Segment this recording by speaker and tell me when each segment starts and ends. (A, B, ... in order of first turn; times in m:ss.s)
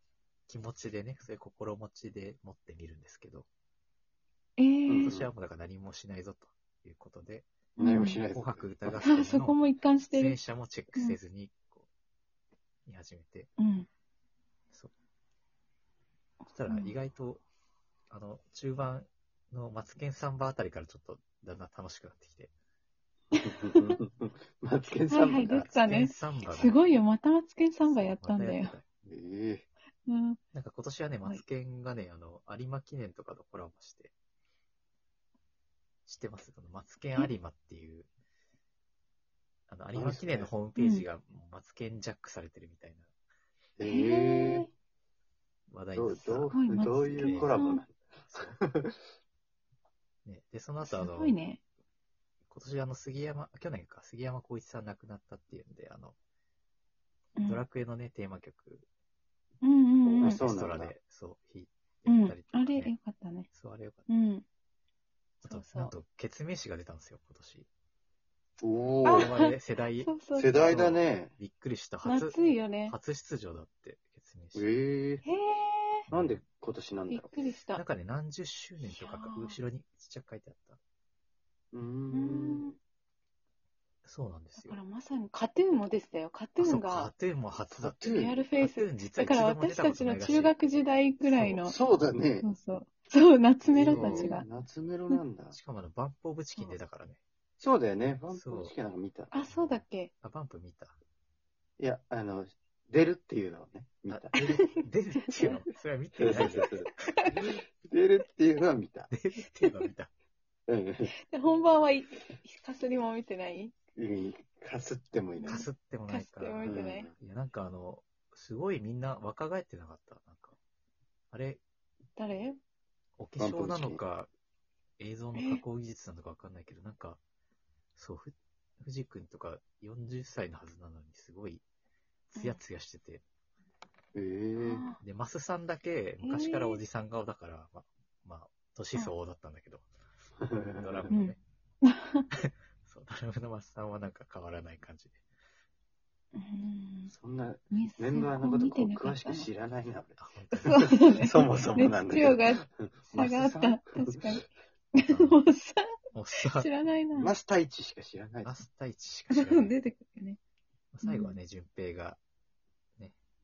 0:00.5-0:03.5 A
0:04.6-0:05.1 B
0:04.9-0:05.3 C
0:05.0-0:07.5 A
0:07.8-0:08.2 B
0:07.8-0:09.0 C
0:08.1-0:11.9 A
0:09.0-0:10.4 B
0:12.9-0:13.5 A
0:13.6-0:13.9 B
0:16.4-0:17.4 A
0:16.7-0:16.9 B
0:18.1-0:22.5 A
0:23.4-0:24.0 B
0:23.4-0:25.7 C
0:25.1-0:28.8 B
0:25.7-0:26.8 A
0:27.9-0:28.8 A
0:29.0-0:29.7 C
0:30.1-0:30.4 B
0:30.5-0:34.1 A
0:36.1-0:38.1 A
0:39.7-0:43.1 A
0:40.0-0:40.5 C
0:40.8-0:41.1 B
0:43.8-0:44.7 C
0:43.8-0:44.7 B
0:45.7-0:47.6 A
0:46.0-0:49.0 C
0:46.5-0:47.8 B
0:48.3-0:48.6 A
0:50.2-0:51.4 A
0:50.8-0:51.6 B
0:52.5-0:56.2 A
0:57.4-0:57.6 B
0:57.5-0:58.9 A
0:59.6-1:00.4 B
1:00.0-1:00.9 C
1:00.2-1:02.9 A
1:02.1-1:03.5 B
1:03.5-1:04.0 A
1:04.1-1:04.4 B
1:05.4-1:05.9 B
1:05.4-1:07.7 A
1:08.6-1:09.3 C
1:09.0-1:10.8 B
1:09.2-1:14.7 A
1:10.4-1:11.4 C
1:12.0-1:13.0 B
1:14.6-1:15.2 C
1:15.2-1:16.1 B
1:16.1-1:16.4 A
1:16.1-1:17.3 C
1:17.1-1:17.8 B
1:17.8-1:20.8 A
1:18.8-1:19.6 B
1:21.7-1:22.6 C
1:22.1-1:22.8 B
1:24.0-1:24.8 A
1:24.6-1:27.1 B
1:26.6-1:30.6 A
1:27.7-1:28.5 C
1:28.0-1:31.8 B
1:31.2-1:31.6 A
1:31.6-1:32.5 C
1:32.4-1:34.5 B
1:33.6-1:35.6 C
1:33.8-1:34.4 A
1:35.5-1:37.2 A
1:37.6-1:39.3 C
1:38.3-1:38.8 A
1:39.3-1:40.1 B
1:39.4-1:41.0 A
1:41.8-1:44.4 C
1:44.1-1:46.7 A
1:44.3-1:45.6 B
1:46.2-1:49.1 C
1:46.4-1:47.4 B
1:49.1-1:50.1 A
1:50.7-1:51.1 C
1:51.1-1:53.7 B
1:54.0-1:55.7 C
1:55.4-1:57.1 B
1:55.5-2:00.6 A
1:56.7-1:57.1 C
2:01.3-2:01.6 A
2:02.2-2:02.6 B
2:03.2-2:04.3 A
2:03.4-2:04.0 C
2:05.0-2:07.2 A
2:05.4-2:05.6 B
2:08.0-2:11.6 A
2:12.3-2:13.2 A
2:14.2-2:14.8 C
2:14.6-2:15.0 B
2:15.0-2:19.8 A
2:16.2-2:16.8 B
2:20.4-2:21.1 C
2:20.7-2:21.4 A
2:21.1-2:22.3 B
2:22.3-2:25.2 A
2:26.4-2:27.1 B
2:27.1-2:34.4 C
2:27.7-2:29.5 B
2:30.2-2:30.8 A
2:30.6-2:34.4 B
2:35.0-2:37.3 B
2:35.0-2:35.4 A
2:36.1-2:36.7 A
2:37.2-2:38.6 C
2:38.4-2:39.7 A
2:39.3-2:40.4 B
2:40.9-2:42.2 A
2:41.0-2:41.4 B